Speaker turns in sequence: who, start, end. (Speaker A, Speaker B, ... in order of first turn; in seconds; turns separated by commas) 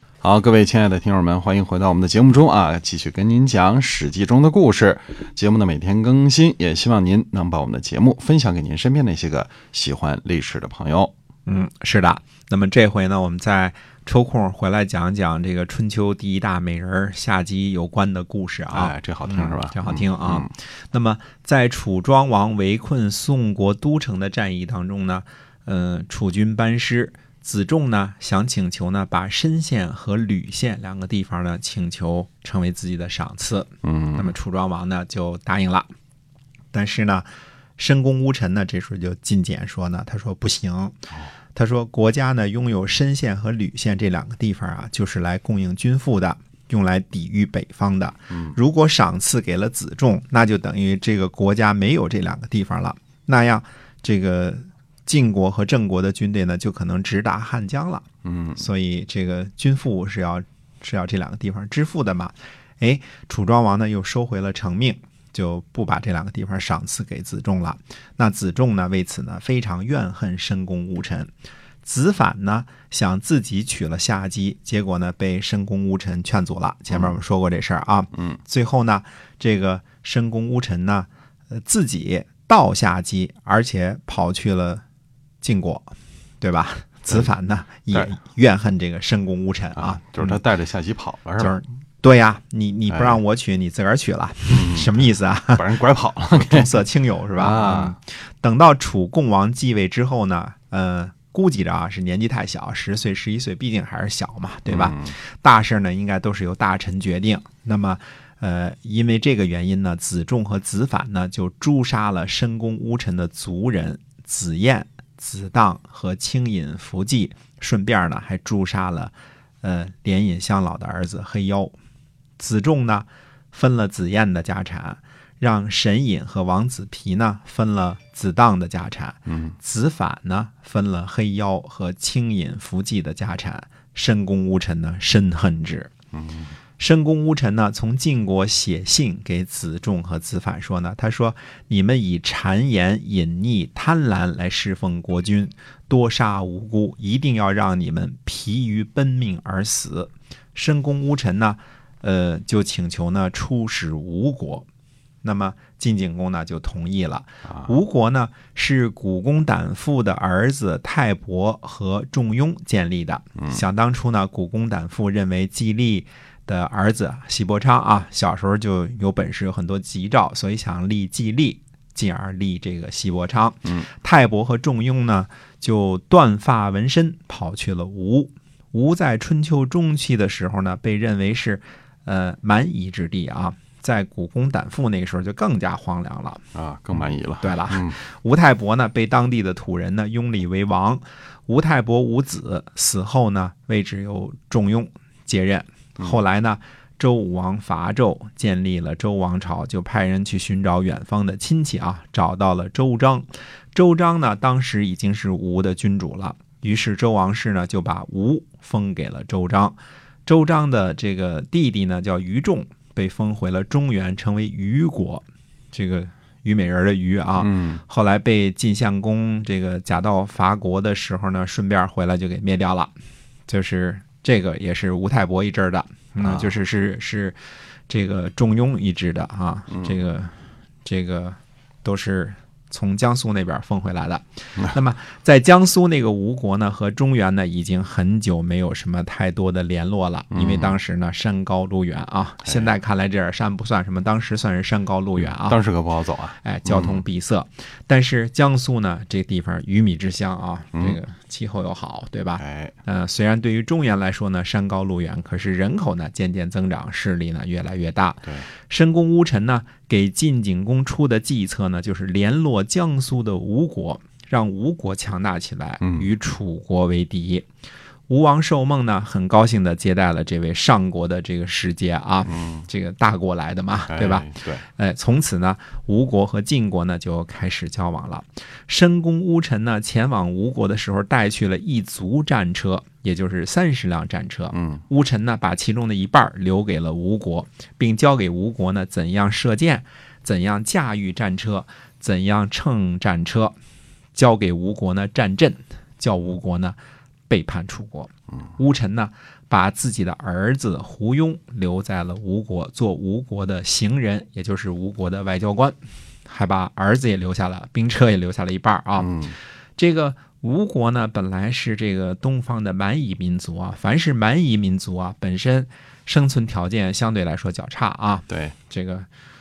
Speaker A: 0.2-11.1, Speaker B: 11.5-35.9, Speaker A: 18.7-20.5, Speaker A: 33.8-34.3, Speaker B: 36.7-37.3, Speaker B: 37.8-41.0, Speaker B: 41.5-58.0, Speaker A: 48.3-48.6, Speaker A: 58.2-58.6, Speaker B: 58.6-71.3, Speaker B: 71.8-84.8, Speaker A: 78.1-78.4, Speaker B: 85.4-85.9, Speaker B: 86.4-90.4, Speaker A: 89.8-91.6, Speaker B: 91.4-95.7, Speaker A: 92.9-93.2, Speaker A: 94.5-96.8, Speaker B: 96.3-121.7, Speaker A: 97.4-98.0, Speaker A: 104.7-105.2, Speaker B: 122.4-135.9, Speaker A: 129.3-129.6, Speaker A: 136.1-136.5, Speaker B: 136.8-154.7, Speaker B: 155.2-186.4, Speaker A: 157.4-157.7, Speaker A: 186.5-188.0, Speaker B: 186.9-222.9, Speaker A: 217.4-217.8, Speaker B: 223.5-227.4, Speaker A: 226.2-226.5, Speaker B: 227.9-230.3, Speaker B: 230.8-245.6, Speaker A: 240.3-240.8, Speaker A: 242.4-242.7, Speaker A: 245.2-247.0, Speaker B: 246.4-267.5, Speaker A: 250.7-251.0, Speaker A: 252.4-252.8, Speaker A: 265.8-266.1, Speaker B: 268.1-293.6, Speaker A: 272.3-272.7, Speaker A: 273.9-274.6, Speaker A: 284.5-284.8, Speaker B: 294.1-296.8, Speaker B: 297.3-309.1, Speaker A: 309.0-309.4, Speaker B: 309.8-319.1, Speaker A: 318.3-318.6